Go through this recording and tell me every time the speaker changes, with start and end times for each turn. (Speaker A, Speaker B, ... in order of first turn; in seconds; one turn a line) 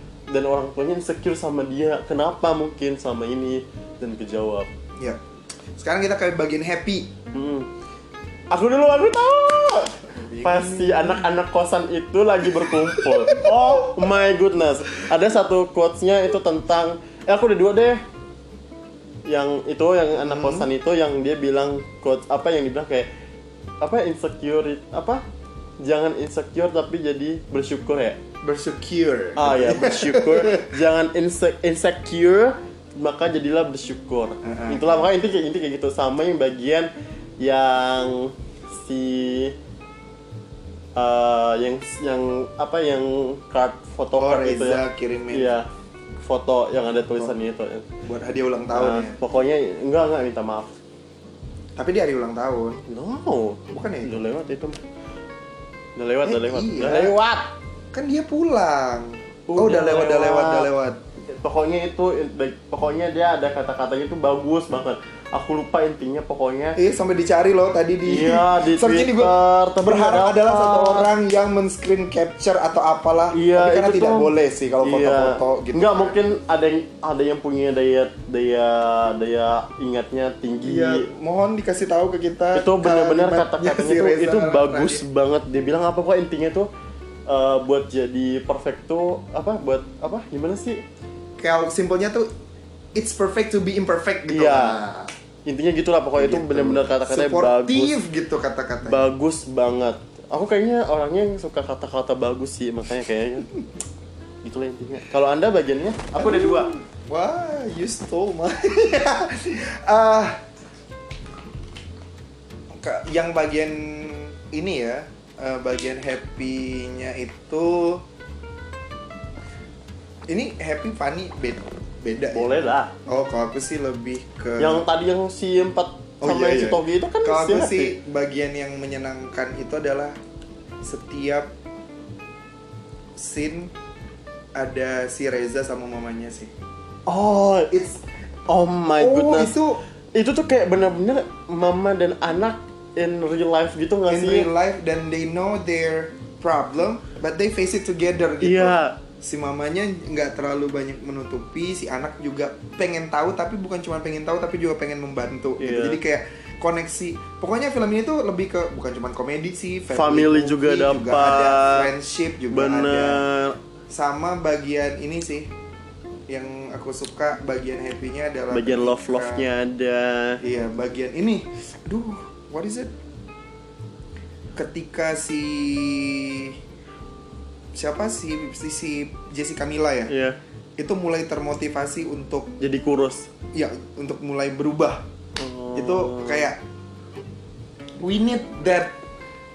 Speaker A: 0.3-4.7
Speaker B: 5.8-7.1
Speaker A: 7.3-7.7
Speaker A: 8.5-18.0
Speaker B: 10.1-11.3
Speaker B: 12.5-13.9
Speaker A: 19.3-23.1
Speaker B: 20.2-20.7
Speaker A: 23.8-25.2
Speaker A: 25.8-28.2
Speaker B: 28.4-30.7
Speaker A: 29.4-39.6
Speaker B: 34.4-35.1
Speaker A: 41.0-45.7
Speaker B: 44.2-45.6
Speaker A: 46.2-47.9
Speaker B: 48.0-49.2
Speaker A: 48.7-50.8
Speaker B: 51.8-52.8
Speaker A: 52.9-54.8
Speaker B: 53.7-54.2
Speaker A: 56.0-57.5
Speaker B: 56.2-57.1
Speaker B: 57.9-61.0
Speaker A: 59.5-60.7
Speaker A: 61.3-66.8
Speaker B: 66.8-76.2
Speaker A: 68.0-71.1
Speaker A: 73.3-81.1
Speaker B: 80.6-85.0
Speaker A: 82.5-86.7
Speaker A: 87.3-90.8
Speaker B: 91.4-92.3
Speaker B: 93.0-95.1
Speaker A: 94.3-94.8
Speaker A: 95.5-98.0
Speaker B: 96.2-99.0
Speaker A: 98.8-103.5
Speaker A: 104.4-106.7
Speaker B: 106.2-110.4
Speaker B: 112.7-118.0
Speaker B: 120.3-124.8
Speaker A: 122.3-122.9
Speaker A: 124.6-128.0
Speaker B: 126.2-130.2
Speaker B: 130.8-131.5
Speaker B: 133.2-133.7
Speaker B: 134.6-136.5
Speaker A: 137.1-137.8
Speaker B: 137.7-138.0
Speaker A: 138.5-139.6
Speaker B: 139.0-139.8
Speaker A: 140.1-144.5
Speaker B: 144.1-163.2
Speaker A: 148.4-149.0
Speaker A: 155.6-156.0
Speaker A: 159.9-161.9
Speaker A: 162.5-163.6
Speaker B: 163.9-165.5
Speaker B: 166.3-169.5
Speaker A: 168.5-170.4
Speaker B: 170.4-172.9
Speaker B: 174.6-176.6
Speaker B: 177.8-180.1
Speaker A: 180.1-180.4
Speaker B: 180.8-182.6
Speaker A: 182.6-183.3
Speaker B: 183.5-185.1
Speaker A: 185.4-186.5
Speaker B: 185.7-186.6
Speaker B: 188.0-189.0